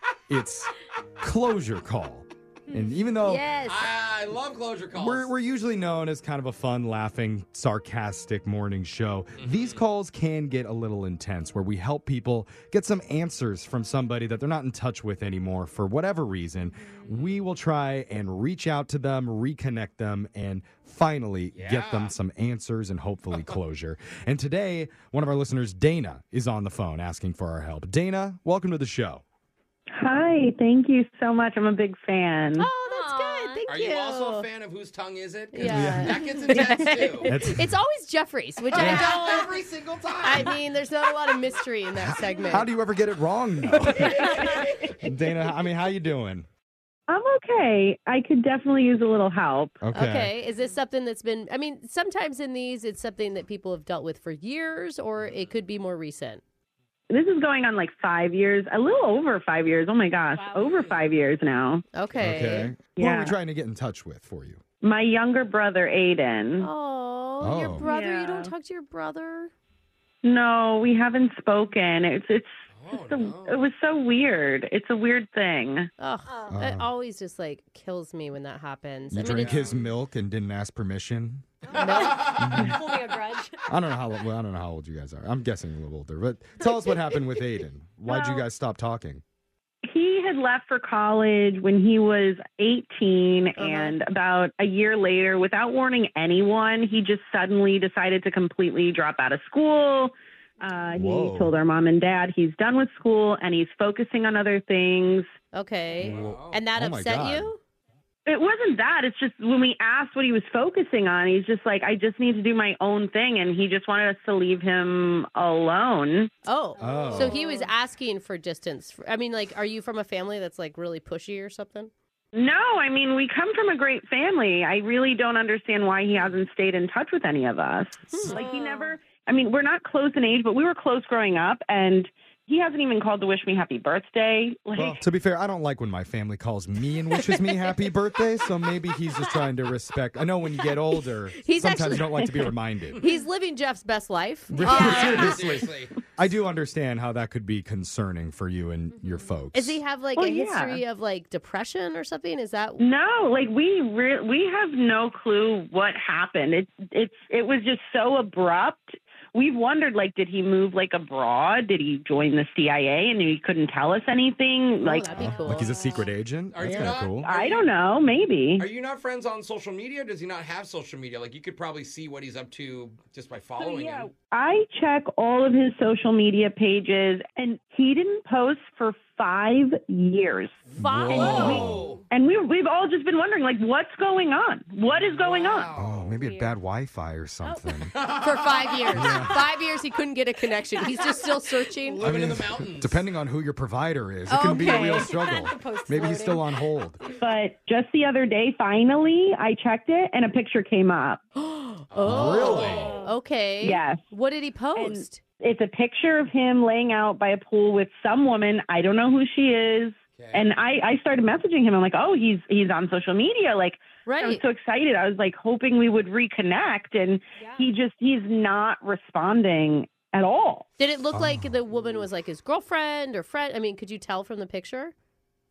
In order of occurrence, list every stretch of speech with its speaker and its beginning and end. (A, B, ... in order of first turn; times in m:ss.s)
0:00.3-0:03.5 A
0:02.7-0:03.0 B
0:03.2-0:03.9 C
0:03.6-0:05.3 D
0:05.0-0:29.2 A
0:09.4-0:09.8 D
0:17.1-0:17.4 D
0:21.5-0:22.2 D
0:30.0-0:32.7 E
0:32.6-0:34.5 C
0:32.8-0:33.6 B
0:33.7-0:37.3 D
0:35.5-0:39.5 C
0:35.7-0:36.2 A
0:37.2-0:37.8 A
0:38.7-0:40.6 D
0:38.8-0:39.2 A
0:40.2-0:42.7 C
0:41.9-0:46.5 A
0:43.9-0:44.5 C
0:44.2-0:45.0 D
0:47.1-0:49.8 E
0:49.8-0:50.3 A
0:49.9-0:56.4 C
0:55.2-0:55.6 D
0:57.1-1:01.8 E
1:00.3-1:00.8 B
1:00.6-1:01.1 D
1:02.0-1:02.8 C
1:02.2-1:04.6 A
1:03.0-1:03.4 E
1:04.8-1:06.7 E
1:06.6-1:09.5 C
1:07.4-1:07.9 A
1:07.8-1:08.5 E
1:10.2-1:15.9 E
1:12.8-1:13.7 D
1:16.0-1:19.6 C
1:16.3-1:16.6 B
1:16.5-1:16.9 A
1:19.1-1:21.5 A
1:19.2-1:19.9 D
1:21.7-1:23.6 B
1:21.7-1:22.4 C
1:21.7-1:22.5 D
1:22.3-1:22.8 A
1:23.7-1:29.2 A
1:29.8-1:45.3 E
1:33.6-1:34.0 C
1:41.0-1:41.6 A
1:45.5-1:47.6 C
1:46.0-1:46.7 D
1:46.0-1:47.5 A
1:48.3-1:56.3 E
1:56.5-2:01.9 C
1:56.8-1:57.7 B
1:56.8-1:57.4 A
2:02.3-2:15.0 E
2:08.1-2:08.4 C
2:08.3-2:09.0 B
2:14.8-2:23.0 A
2:17.1-2:17.7 C
2:21.4-2:25.4 C
2:24.5-2:29.8 A
2:24.6-2:25.9 D
2:29.5-2:32.8 C
2:30.2-2:30.8 E
2:32.8-2:45.1 E
2:44.8-2:46.1 C
2:45.2-2:47.3 A
2:45.2-2:46.1 B
2:46.5-2:47.7 D
2:47.2-2:48.7 E
2:48.6-2:54.1 D
2:53.6-3:00.6 E
3:00.7-3:02.0 D
3:00.8-3:01.7 C
3:00.8-3:01.9 A
3:01.1-3:01.8 B
3:01.2-3:05.7 E
3:04.9-3:06.2 D
3:05.7-3:07.9 A
3:06.1-3:06.5 B
3:07.4-3:07.7 B
3:07.7-3:09.2 D
3:08.1-3:12.0 C
3:08.9-3:09.4 A
3:11.9-3:13.1 D
3:12.0-3:17.0 A
3:14.3-3:15.2 C
3:14.5-3:17.1 B
3:17.1-3:21.2 E
3:21.4-3:25.2 C
3:21.9-3:22.9 D
3:22.0-3:23.0 A
3:22.3-3:22.8 E
3:22.4-3:23.2 B
3:23.6-3:24.0 E
3:24.8-3:40.7 E
3:30.2-3:30.5 D
3:34.0-3:34.4 C
3:37.4-3:37.7 B
3:40.8-3:44.9 C
3:41.1-3:41.6 A